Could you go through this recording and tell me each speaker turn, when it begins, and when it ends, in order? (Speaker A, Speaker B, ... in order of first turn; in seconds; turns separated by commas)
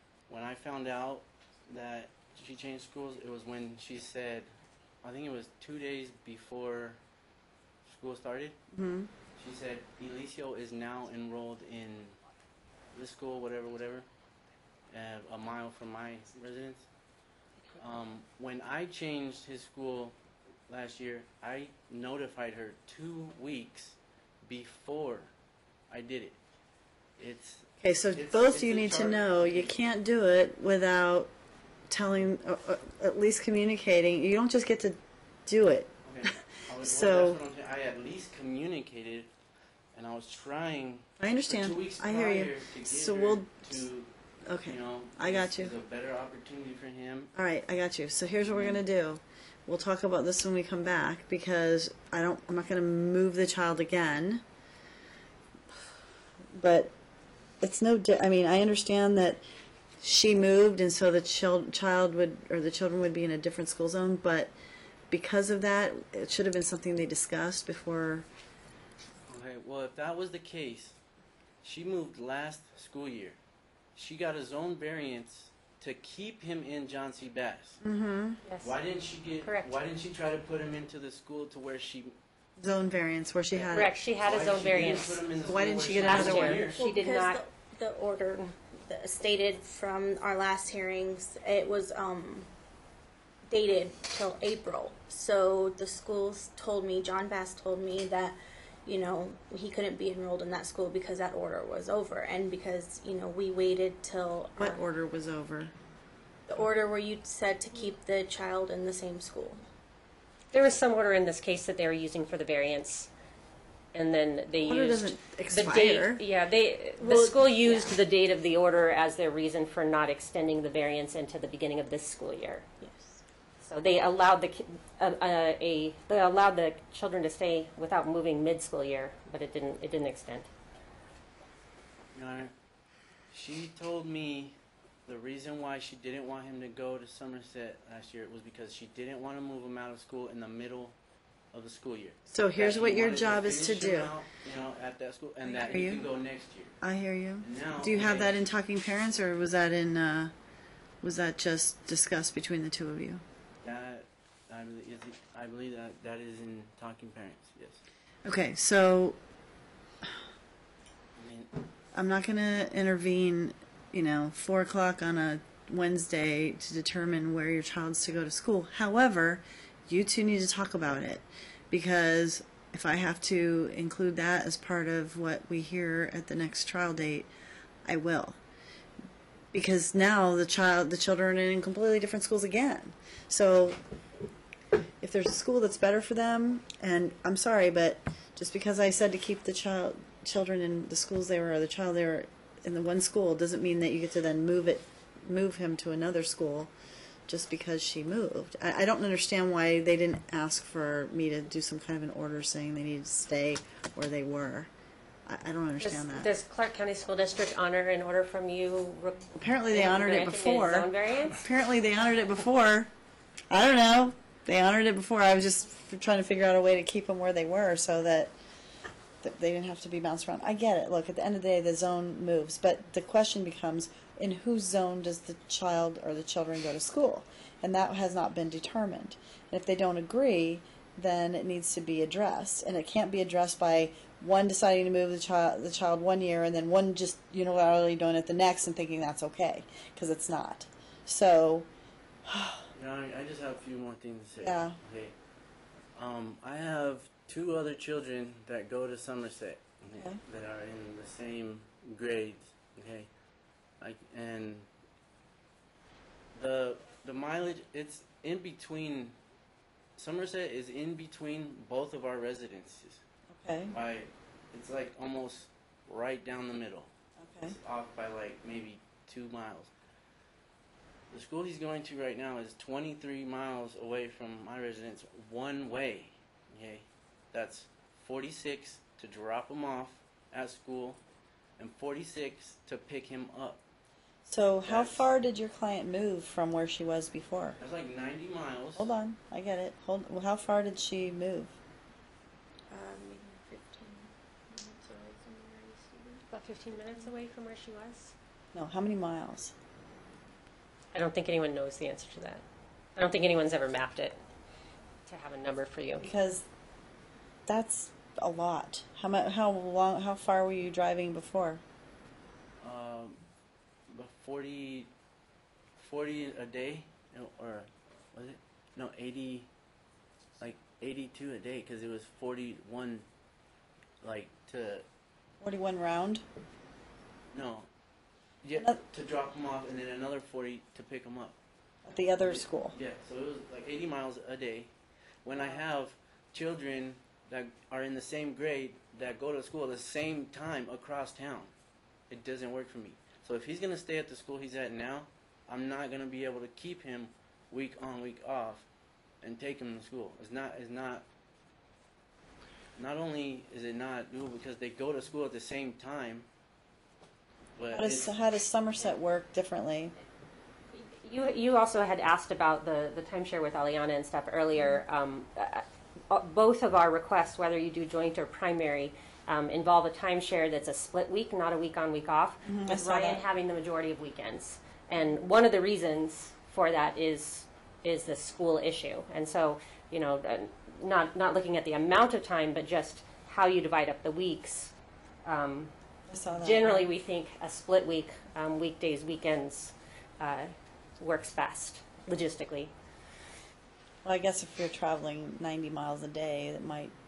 Speaker A: 0.3-4.5, Speaker A: 5.0-7.0, Speaker A: 7.8-8.6, Speaker B: 8.7-9.1, Speaker A: 9.4-12.2, Speaker A: 12.9-14.1, Speaker A: 14.9-16.9, Speaker A: 17.8-20.1, Speaker A: 20.7-25.3, Speaker A: 25.9-26.4, Speaker A: 27.2-29.7, Speaker B: 27.8-31.3, Speaker B: 31.9-37.4, Speaker A: 36.0-39.3, Speaker A: 39.9-47.3, Speaker B: 41.2-43.8, Speaker B: 44.5-45.7, Speaker B: 47.4-54.4, Speaker A: 48.4-48.8, Speaker B: 56.5-56.9, Speaker B: 57.6-59.4, Speaker B: 60.0-64.5, Speaker B: 65.1-68.3, Speaker A: 69.3-71.0, Speaker A: 71.6-73.4, Speaker A: 74.0-77.8, Speaker B: 77.8-78.4, Speaker C: 78.5-78.7, Speaker A: 78.6-82.2, Speaker C: 79.4-79.7, Speaker B: 82.6-83.9, Speaker A: 83.5-86.8, Speaker C: 83.7-85.2, Speaker B: 84.8-86.7, Speaker C: 85.9-87.4, Speaker D: 86.8-92.5, Speaker D: 93.5-104.8, Speaker B: 104.6-105.7, Speaker D: 106.5-109.6, Speaker C: 110.5-113.1, Speaker C: 113.9-122.7, Speaker B: 114.7-116.2, Speaker B: 117.0-117.4, Speaker D: 117.2-117.9, Speaker D: 122.8-123.2, Speaker C: 123.6-130.5, Speaker A: 132.1-132.5, Speaker A: 133.3-141.0, Speaker A: 141.5-146.8, Speaker B: 142.3-144.1, Speaker B: 145.5-146.1, Speaker B: 146.8-150.3, Speaker A: 147.4-148.4, Speaker B: 151.0-153.2, Speaker A: 153.6-157.8, Speaker B: 158.2-159.2, Speaker A: 161.2-161.5, Speaker B: 161.9-177.3, Speaker B: 177.8-178.4, Speaker B: 179.5-183.8, Speaker B: 185.0-196.7, Speaker B: 197.3-204.7, Speaker B: 205.3-206.3, Speaker C: 205.8-211.4, Speaker B: 209.3-212.9, Speaker B: 213.5-218.3, Speaker B: 219.2-241.7, Speaker B: 242.2-242.7, Speaker A: 242.7-245.1, Speaker B: 244.4-244.8, Speaker A: 245.9-253.1, Speaker B: 250.0-250.2, Speaker A: 253.8-254.7, Speaker A: 256.3-259.1, Speaker A: 260.0-263.0, Speaker B: 263.3-263.8, Speaker A: 263.7-269.7, Speaker B: 267.2-267.6, Speaker A: 271.1-281.0, Speaker A: 281.6-283.6, Speaker B: 284.3-287.6, Speaker A: 284.6-285.1, Speaker A: 287.6-288.9, Speaker B: 288.8-291.5, Speaker D: 292.7-296.3, Speaker C: 296.3-298.1, Speaker B: 298.5-299.5, Speaker C: 300.9-302.4, Speaker C: 303.0-304.2, Speaker C: 305.1-306.1, Speaker B: 306.0-306.5, Speaker B: 307.5-311.6, Speaker A: 312.6-313.2, Speaker A: 313.9-314.9, Speaker A: 315.8-319.5, Speaker A: 320.4-323.1, Speaker A: 324.0-324.9, Speaker B: 325.4-326.2, Speaker A: 327.3-327.7, Speaker A: 328.4-331.4, Speaker B: 331.9-332.8, Speaker A: 332.2-334.7, Speaker A: 335.2-341.5, Speaker A: 342.1-348.7, Speaker A: 349.2-351.1, Speaker A: 352.8-356.3, Speaker A: 357.6-358.1, Speaker B: 357.7-359.9, Speaker C: 360.8-384.7, Speaker B: 372.4-373.2, Speaker C: 385.2-385.7, Speaker B: 386.1-386.9, Speaker C: 386.4-392.7, Speaker B: 394.0-396.9